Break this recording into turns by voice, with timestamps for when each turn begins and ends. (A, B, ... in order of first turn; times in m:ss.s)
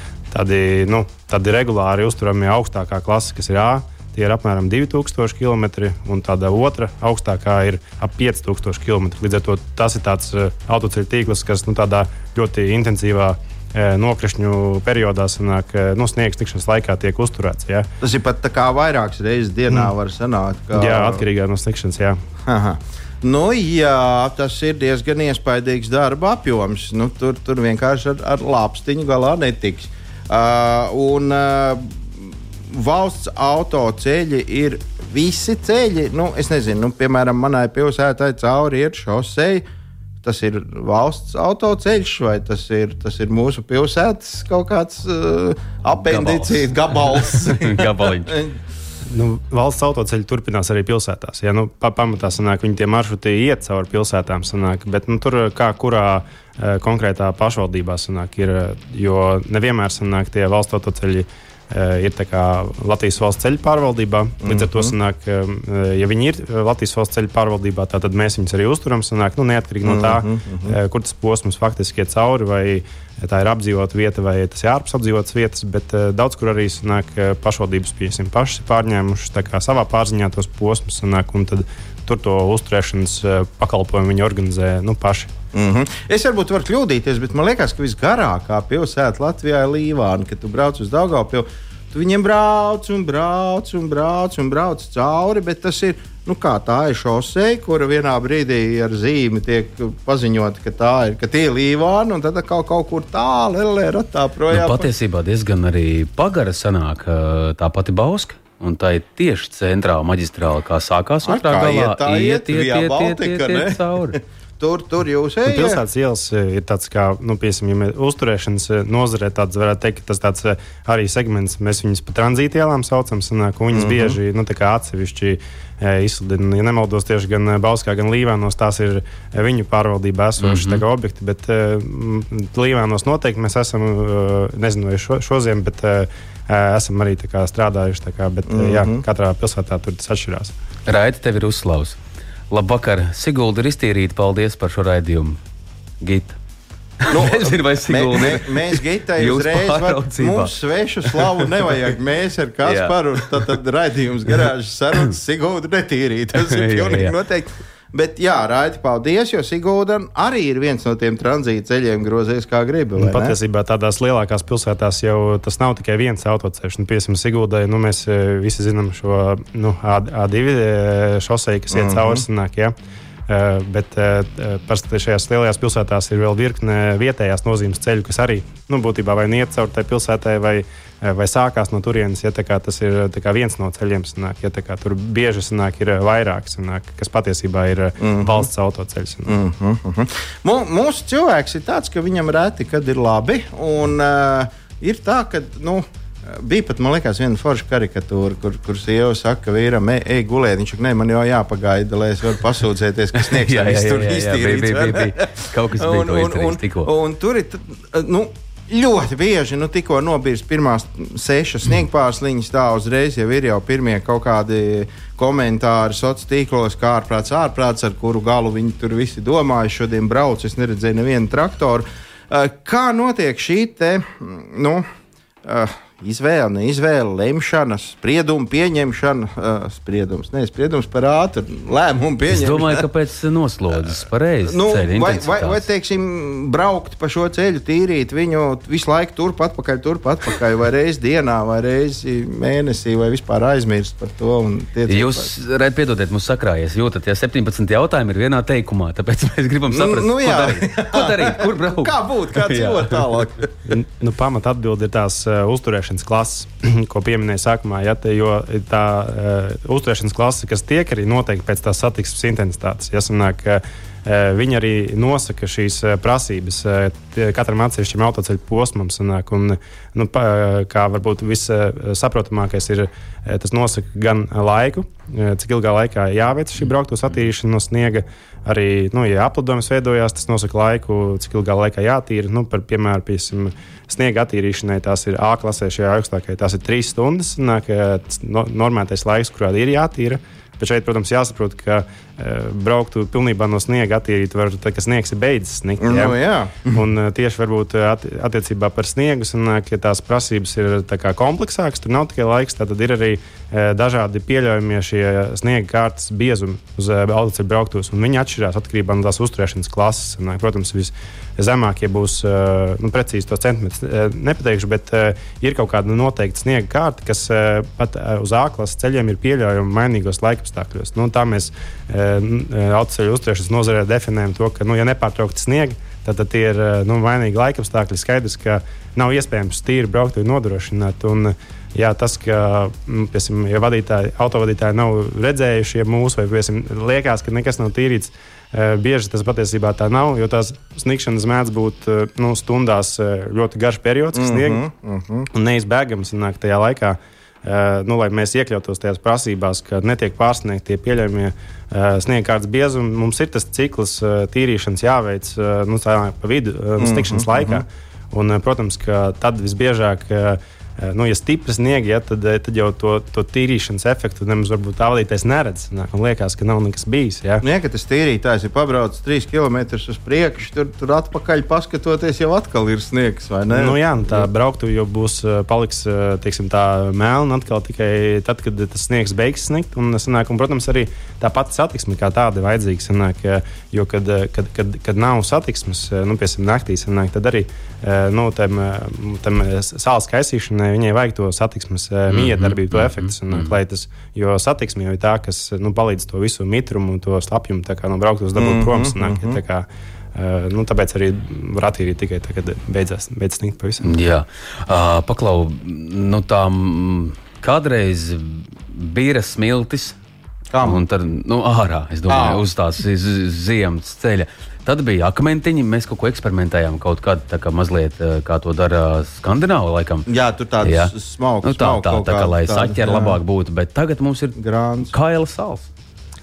0:00.3-0:17.9 A
0:18.0-0:21.2 B
0:20.7-0:22.2 A
0:22.4-0:39.6 B
0:40.2-0:48.6 B
0:46.0-0:48.4 C
0:49.1-1:25.3 A
1:04.4-1:04.9 B
1:09.8-1:10.8 B
1:25.5-1:44.9 B
1:44.5-1:54.2 C
1:51.2-1:55.8 B
1:55.5-2:20.5 A
2:03.7-2:04.2 B
2:10.4-2:10.8 C
2:18.5-2:19.0 B
2:20.9-2:22.0 C
2:22.5-2:25.4 C
2:26.0-2:26.4 C
2:27.0-2:30.5 C
2:27.1-2:43.4 B
2:31.0-2:31.4 C
2:32.6-2:33.0 C
2:36.4-2:37.1 C
2:43.0-2:52.7 A
2:51.7-2:52.2 B
2:53.3-3:09.4 A
3:08.0-3:08.5 B
3:09.3-3:44.8 B
3:23.2-3:26.9 C
3:45.4-3:52.9 B
3:52.3-3:55.6 C
3:54.5-4:05.3 B
4:04.9-4:13.2 C
4:09.7-4:13.5 B
4:13.7-4:56.2 A
4:55.8-4:56.8 B
4:56.7-5:44.6 A
5:44.1-5:45.3 B
5:45.3-6:07.4 A
5:56.8-5:57.6 B
6:07.4-6:14.3 B
6:13.5-6:43.9 A
6:32.1-6:33.5 C
6:38.4-6:39.4 B
6:43.8-6:50.0 C
6:50.5-6:50.8 B
6:50.6-7:00.1 C
6:52.1-6:52.4 B
7:00.1-7:03.2 B
7:00.6-7:04.4 C
7:04.4-7:04.9 B
7:04.9-7:05.7 C